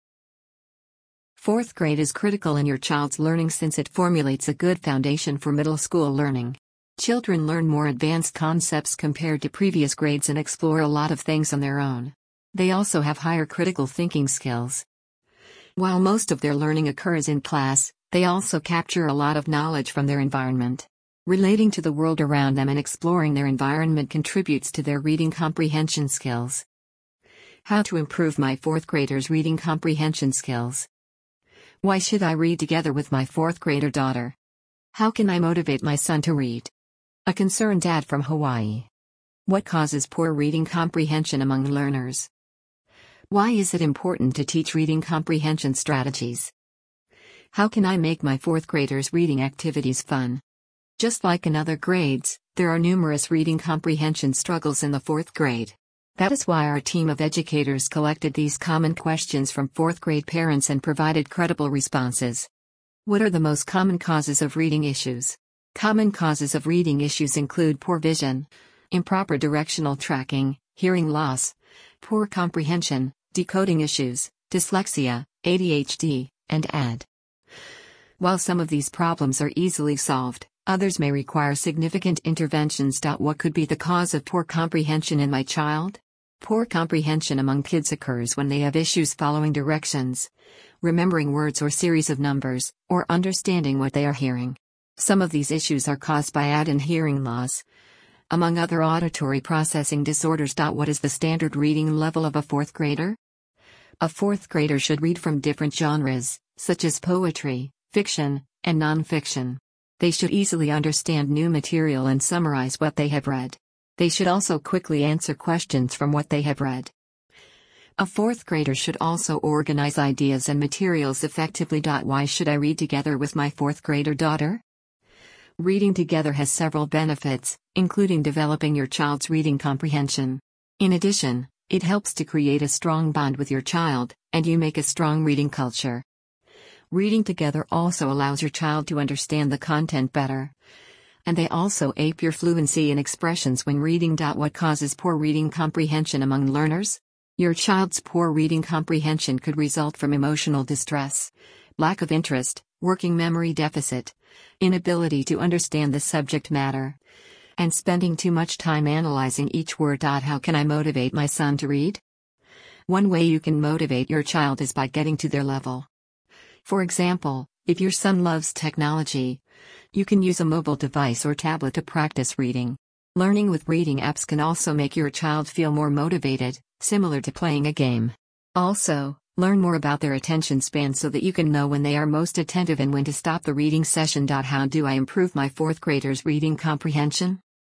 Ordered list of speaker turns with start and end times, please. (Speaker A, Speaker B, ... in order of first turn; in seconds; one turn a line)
Speaker A: 1.4-14.8
Speaker A: 15.8-26.6
Speaker A: 27.6-30.9
Speaker A: 31.8-34.4
Speaker A: 34.9-36.7
Speaker A: 37.3-38.9
Speaker A: 39.5-42.3
Speaker A: 43.3-46.5
Speaker A: 47.5-50.4
Speaker A: 51.0-62.5
Speaker A: 63.0-77.1
Speaker A: 78.2-90.3
Speaker A: 90.8-97.6
Speaker A: 98.3-103.2
Speaker A: 104.0-116.9
Speaker A: 118.0-124.6
Speaker A: 125.6-136.0
Speaker A: 136.9-140.5
Speaker A: 141.2-157.0
Speaker A: 157.6-162.0
Speaker A: 162.9-165.9
Speaker A: 166.6-169.4
Speaker A: 169.9-187.4